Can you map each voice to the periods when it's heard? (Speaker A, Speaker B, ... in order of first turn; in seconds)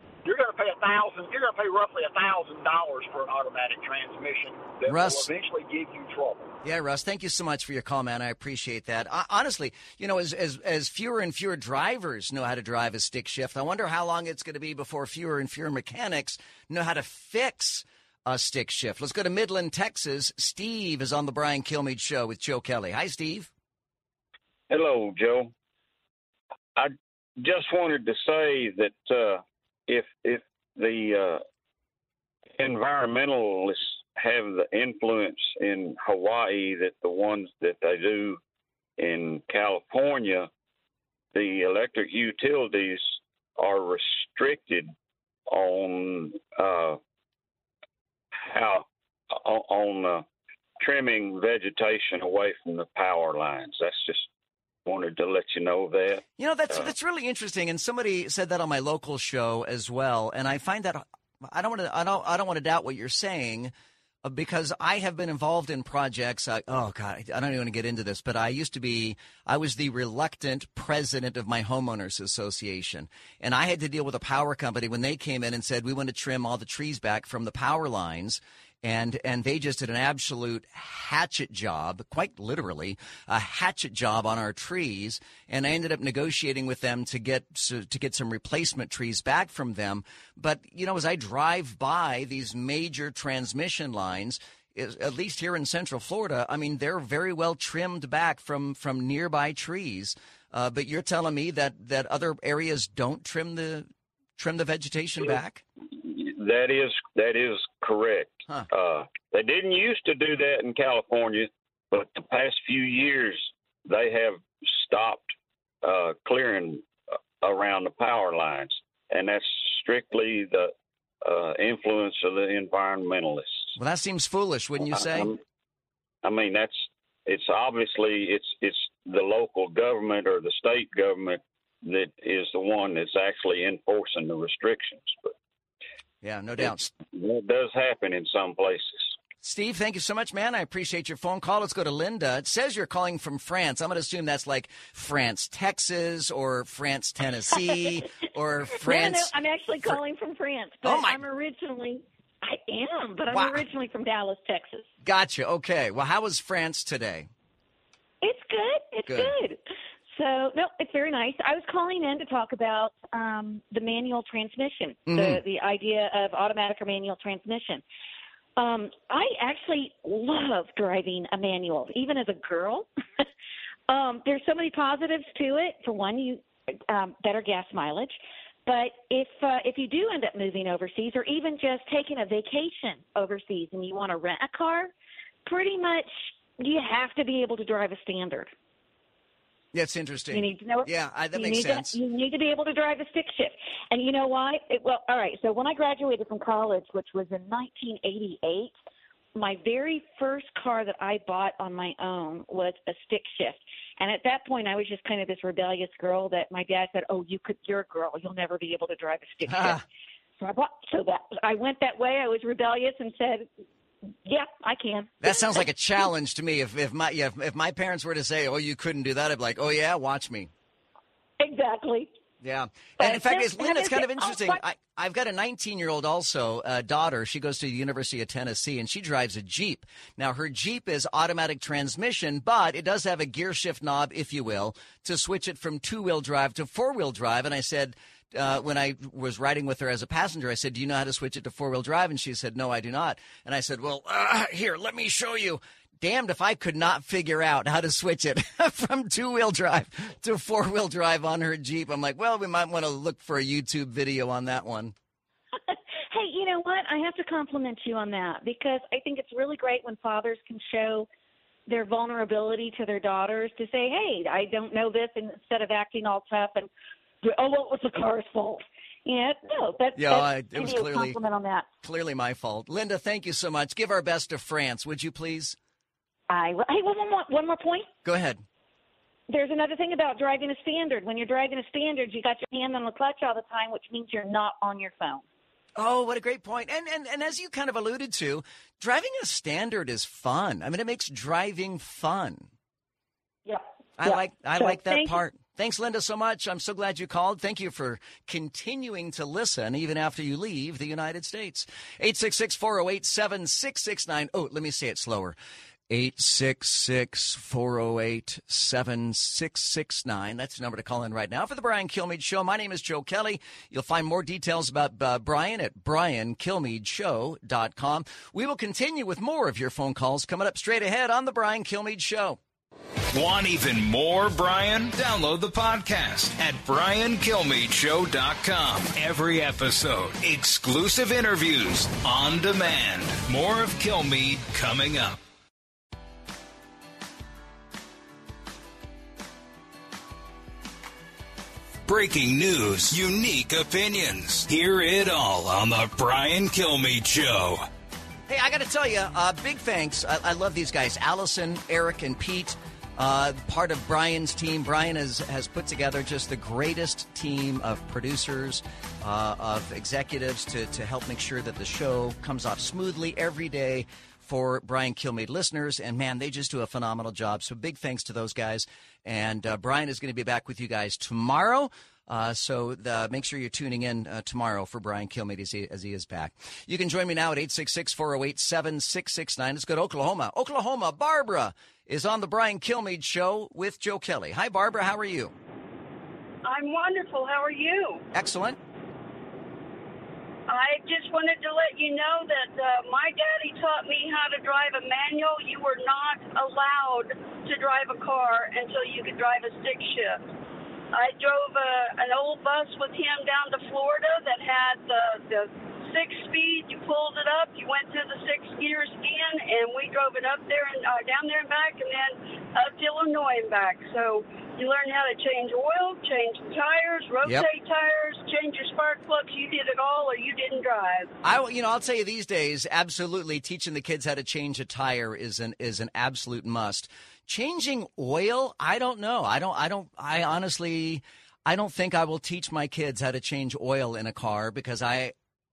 Speaker A: 0.2-6.5
Speaker B: 4.9-5.3, 6.6-23.5, 56.4-63.7, 64.2-105.6, 123.8-125.4, 136.2-136.9, 139.4-150.0, 150.8-151.2, 153.3-153.6, 155.0-157.3, 165.1-165.4, 189.7-192.0, 209.5-209.8, 215.2-220.5, 222.4-254.9, 269.9-271.2, 271.8-275.6, 278.1-278.4, 285.8-292.5, 294.0-305.4, 305.9-322.4, 348.3-385.3, 388.1-388.6, 421.2-435.1
Speaker C: 24.7-25.5, 26.8-31.4, 32.6-38.4, 39.0-40.5, 41.3-44.9, 45.5-47.0, 48.4-50.2, 50.8-54.3, 54.9-56.2, 105.9-115.3, 115.8-116.8, 117.4-120.7, 121.2-123.7, 126.2-135.3, 137.1-139.2
Speaker D: 147.5-154.9, 158.2-159.6, 160.1-167.8, 168.6-172.9, 173.9-184.9, 185.4-188.5, 190.3-198.7, 199.3-209.8, 210.4-213.5, 214.2-215.7, 221.4-222.1, 223.0-224.6, 255.7-261.1, 261.7-266.7, 267.2-271.7, 276.3-277.9, 279.3-285.2, 293.5-295.2
Speaker E: 323.1-335.2, 341.9-347.6
Speaker F: 386.4-388.0, 390.5-400.2, 400.9-421.1